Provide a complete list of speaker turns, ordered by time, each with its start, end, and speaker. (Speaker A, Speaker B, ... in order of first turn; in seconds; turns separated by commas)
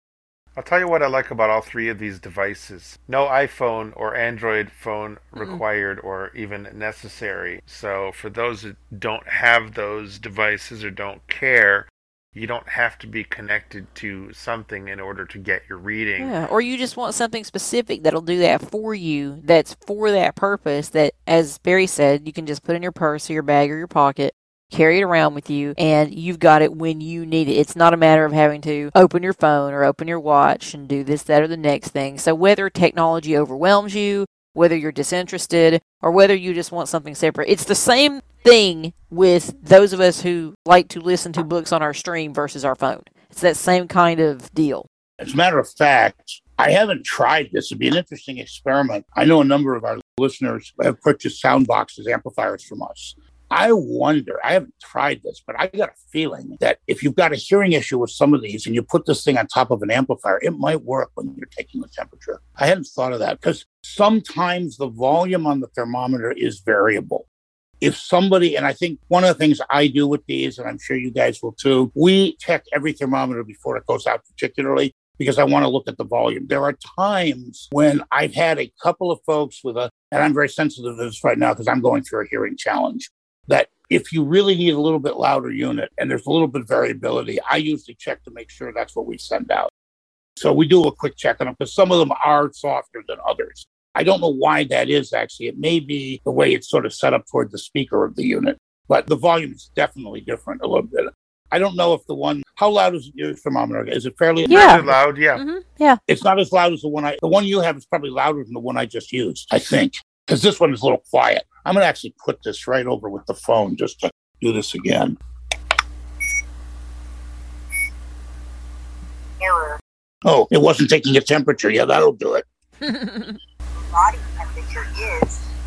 Speaker A: 0.5-16.4, Speaker B: 5.4-5.6, Speaker B: 16.2-44.9, Speaker C: 45.2-67.2, Speaker C: 67.8-89.7, Speaker C: 90.4-105.0, Speaker B: 104.5-106.0, Speaker A: 104.5-105.4, Speaker C: 106.1-115.2, Speaker D: 119.4-119.8, Speaker C: 120.2-122.4, Speaker B: 122.8-123.4, Speaker D: 123.8-125.5